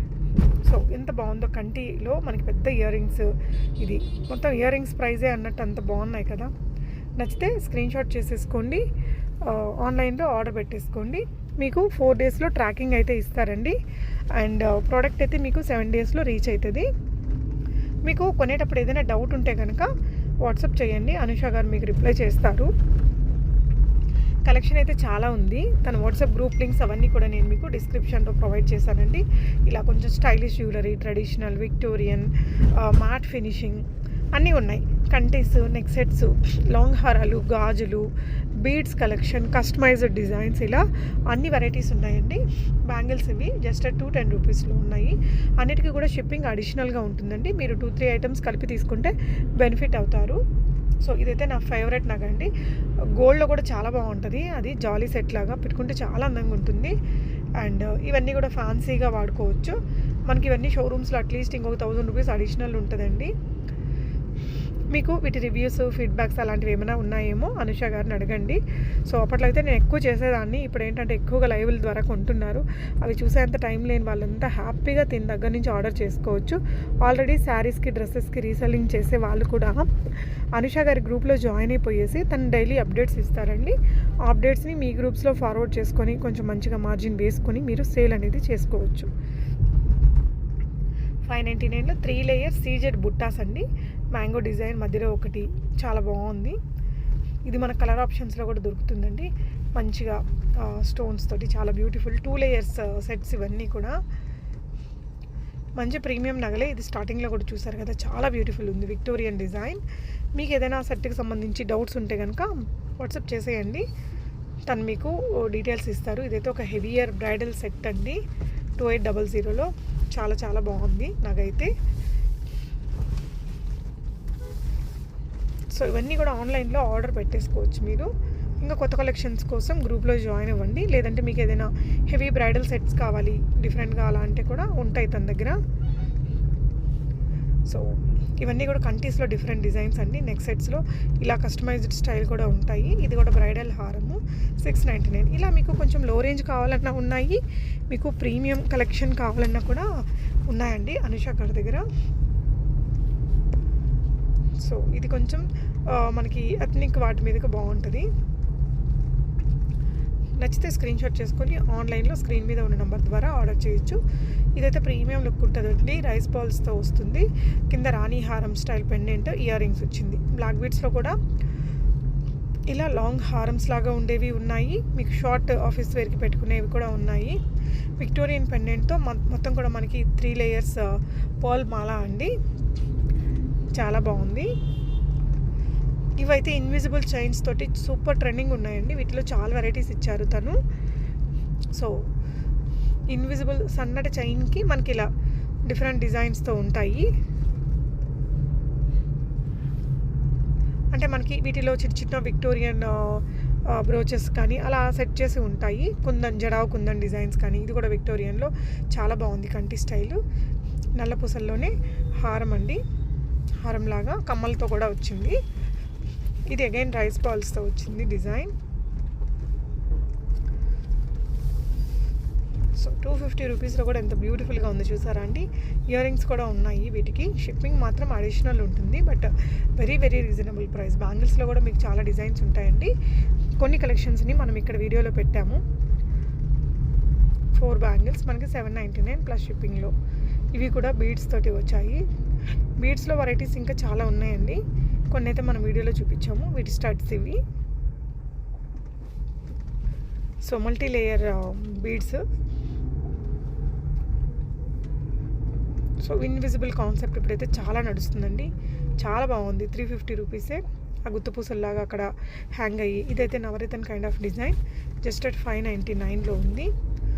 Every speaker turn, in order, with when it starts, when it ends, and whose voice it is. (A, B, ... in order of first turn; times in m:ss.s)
0:00.6-0:06.5 A
0:07.2-0:08.8 A
0:09.4-0:13.8 A
0:14.4-0:16.9 A
0:18.0-0:19.9 A
0:20.4-0:22.7 A
0:24.5-0:38.1 A
0:38.6-0:50.4 A
0:51.0-0:52.5 A
0:53.2-0:57.0 A
0:57.6-1:03.3 A
1:04.9-1:19.9 A
1:20.6-1:29.1 A
1:31.3-1:36.6 A
1:37.5-1:44.0 A
1:45.8-1:49.8 A
1:50.4-1:53.8 A
1:54.7-1:58.2 A
1:58.8-2:01.7 A
2:05.7-2:15.6 A
2:17.7-2:29.9 A
2:30.5-2:31.9 A
2:34.6-2:38.1 A
2:40.4-2:44.0 A
2:44.6-2:51.2 A
2:52.7-2:57.4 A
2:58.0-3:02.3 A
3:03.7-3:04.5 A
3:06.2-3:10.6 A
3:13.1-3:15.1 A
3:15.7-3:17.1 A
3:20.9-3:30.2 A
3:31.0-3:32.8 A
3:33.6-3:35.4 A
3:36.5-3:38.5 A
3:42.8-3:52.9 A
3:53.6-3:55.6 A
3:57.5-3:59.9 A
4:00.6-4:02.0 A
4:02.8-4:07.4 A
4:10.4-4:12.2 A
4:16.0-4:26.7 A